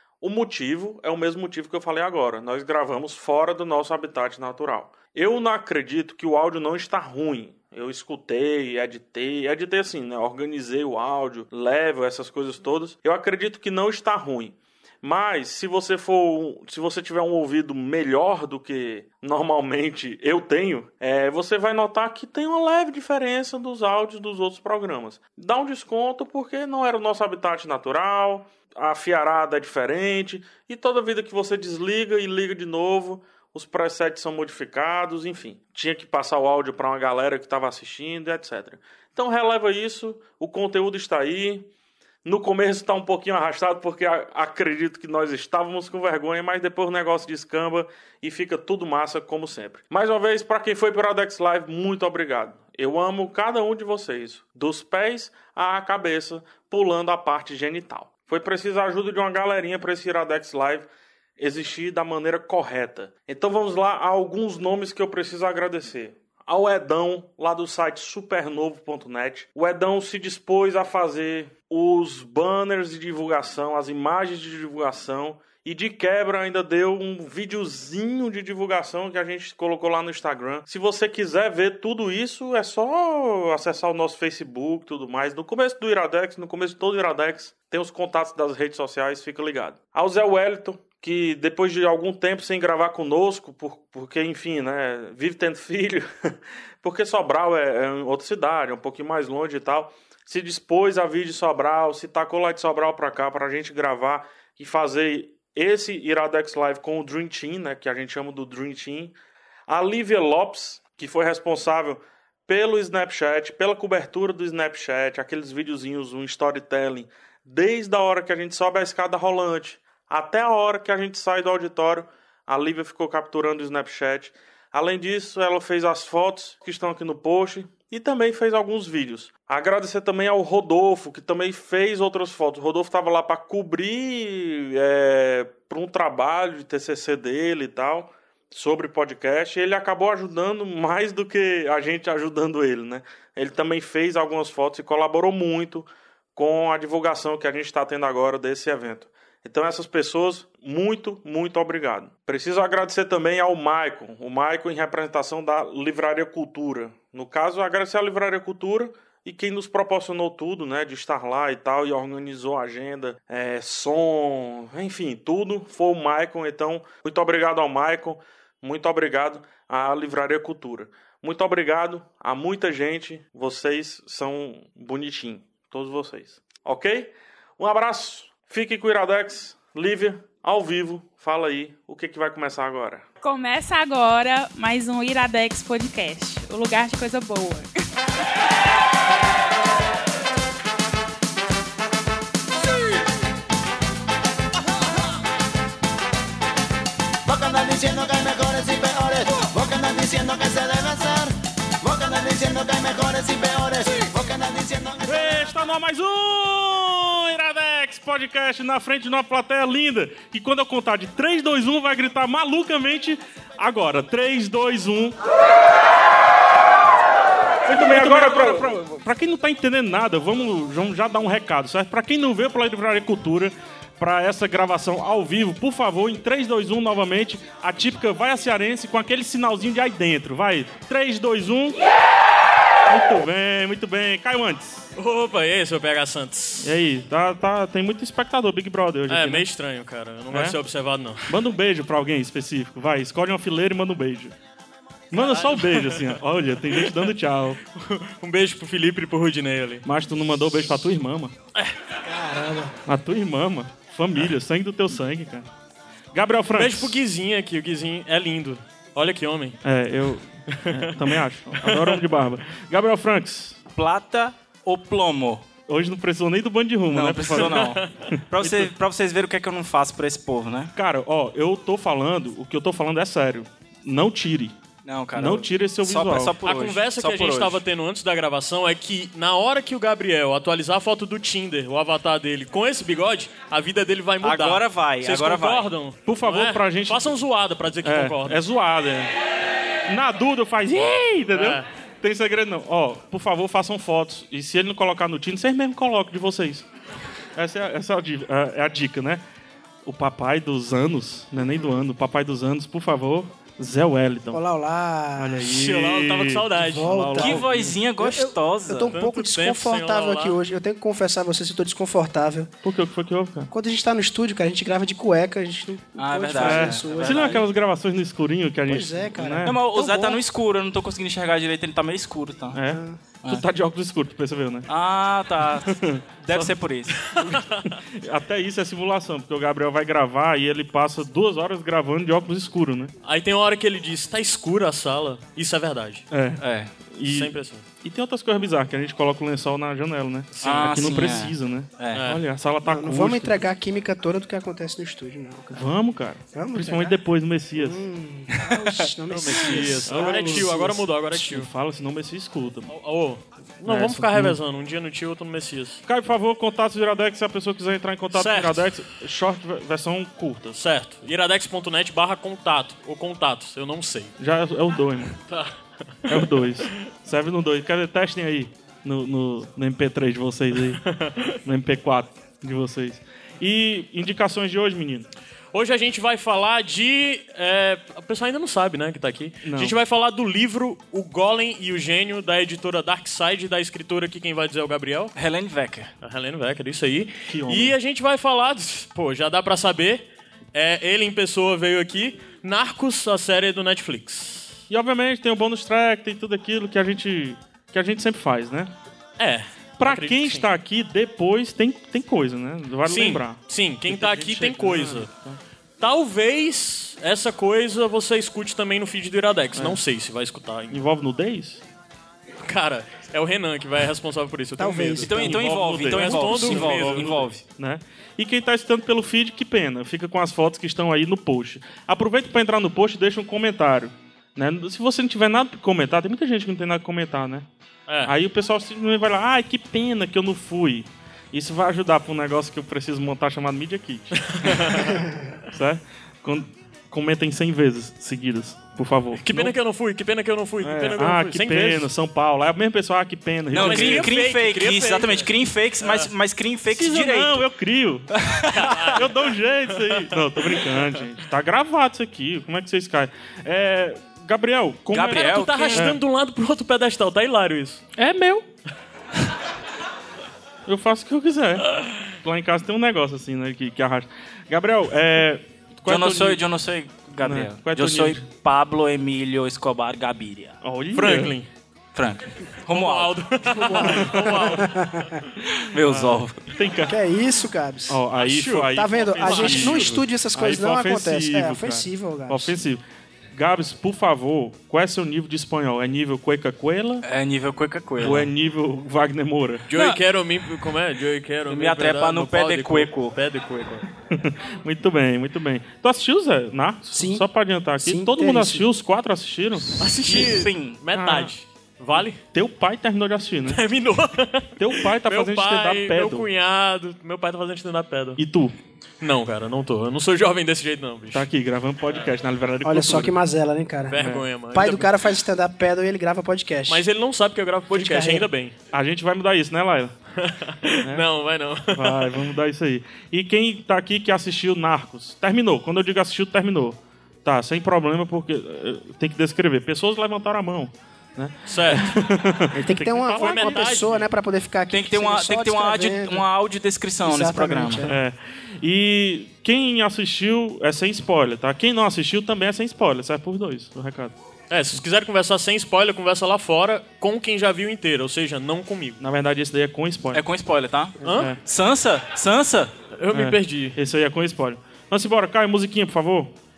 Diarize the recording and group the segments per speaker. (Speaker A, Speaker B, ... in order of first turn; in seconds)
Speaker A: 0.2-41.7, 42.2-60.9, 61.4-109.1, 109.7-183.1, 205.0-215.2, 217.7-231.8, 232.9-234.9, 236.6-239.4, 240.3-240.6, 241.3-244.3, 245.1-247.6, 249.8-251.3, 252.8-255.5, 256.1-257.0, 259.6-263.6, 265.7-268.7, 270.7-274.5, 275.1-276.4, 286.1-287.2, 287.8-289.1, 289.9-296.6, 297.4-299.2, 299.8-304.4, 305.2-307.8, 312.6-313.5, 316.4-319.6, 322.5-324.7, 325.6-326.5, 327.9-332.9, 336.1-343.4, 345.5-347.9, 349.9-352.7, 353.6-354.4, 355.9-360.6, 364.2-365.2, 366.1-370.8, 371.4-375.1, 379.4-379.7, 387.3-387.7, 394.7-398.7, 399.8-405.4, 410.7-411.6, 415.2-427.5, 428.0-439.5, 440.6-444.1, 446.7-448.1, 448.9-456.0, 458.0-458.4, 460.6-466.4, 467.2-468.2, 470.6-471.3, 473.8-474.6, 475.9-476.9, 477.9-482.8, 483.3-487.0, 488.0-489.7, 494.1-499.7, 500.9-501.3, 502.3-503.6, 504.6-506.3, 508.2-508.6, 511.1-513.1, 514.0-514.2, 518.7-519.9, 521.7-534.1, 537.8-544.1, 549.0-550.2, 551.1-551.4, 553.1-556.3
Speaker B: 183.2-187.7
Speaker C: 197.2-205.4
Speaker D: 234.9-236.8, 239.1-241.3, 245.1-247.1, 247.7-249.8, 256.5-259.6, 260.7-262.1, 267.3-267.9, 276.4-288.4, 291.3-291.7, 305.4-307.4, 308.9-310.4, 326.9-327.8, 333.0-336.0, 337.0-337.6, 340.3-340.7, 341.9-342.2, 349.1-351.5, 352.7-355.8, 358.1-358.7, 360.5-364.1, 365.2-365.5, 366.0-366.3, 370.8-371.4, 375.5-385.1, 386.0-394.6, 399.2-400.5, 402.9-405.1, 405.8-410.8, 412.4-417.2, 427.9-428.1, 434.3-435.0, 439.2-441.9, 443.5-445.3, 445.8-446.1, 448.5-450.8, 455.1-457.8, 470.9-471.5, 472.7-475.3, 478.2-480.0, 489.7-493.9, 499.8-502.2, 503.4-508.2, 509.0-511.3, 513.9-514.9, 516.7-518.5, 520.2-522.3, 531.5-532.0, 533.1-533.9, 544.5-549.0, 551.0-551.3, 552.9-553.8
Speaker E: 252.1-252.7, 304.3-305.5, 306.6-307.4, 308.0-312.5, 313.5-317.4, 318.7-320.2, 322.7-323.0, 342.6-345.7, 346.3-347.0, 347.5-350.8, 414.6-415.4, 473.5-475.2, 476.9-478.0, 478.7-482.5, 496.9-498.7, 512.6-516.9, 517.7-518.3, 532.5-536.2, 537.0-538.0
Speaker F: 263.8-265.4, 266.9-270.7, 274.8-277.6, 284.2-285.7, 307.1-309.0, 316.0-317.4, 319.4-322.6, 324.7-327.0, 336.4-336.7, 340.4-342.0, 385.1-385.9, 415.0-417.4, 443.5-447.4, 448.1-448.9, 454.9-455.9, 465.8-470.6, 471.9-473.2, 475.5-476.4, 487.0-488.3, 489.7-490.0, 491.5-493.1, 499.7-500.8, 534.7-537.8, 550.1-552.7